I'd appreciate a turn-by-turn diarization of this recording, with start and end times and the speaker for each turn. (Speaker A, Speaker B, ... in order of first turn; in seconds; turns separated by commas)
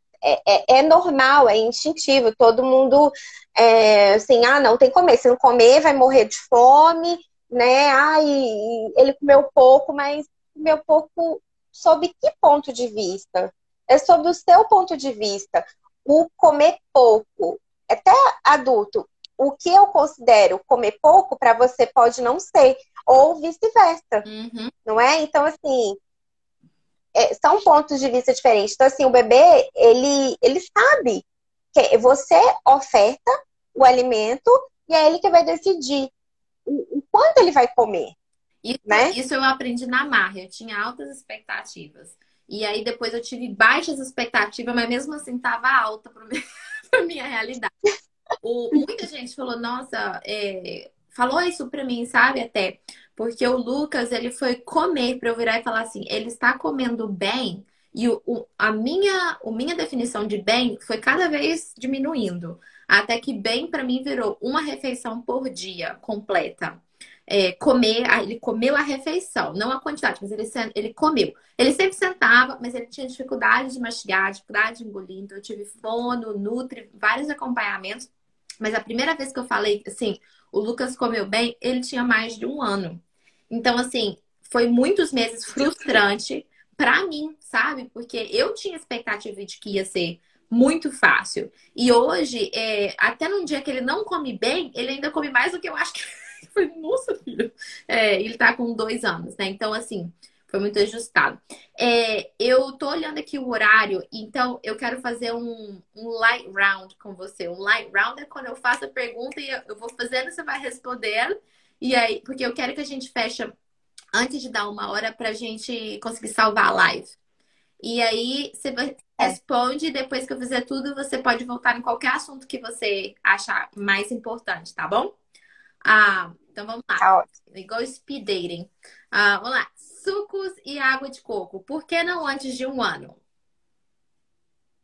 Speaker A: 0.2-24.2, Speaker B: 24.2-24.7, Speaker A: 24.9-26.0, Speaker A: 27.1-36.1, Speaker A: 36.7-38.2, Speaker B: 38.6-46.4, Speaker A: 38.9-39.1, Speaker B: 46.9-47.7, Speaker B: 48.4-78.1, Speaker B: 78.6-113.5, Speaker B: 114.1-117.2, Speaker B: 117.8-125.1, Speaker B: 125.8-133.2, Speaker A: 127.0-127.2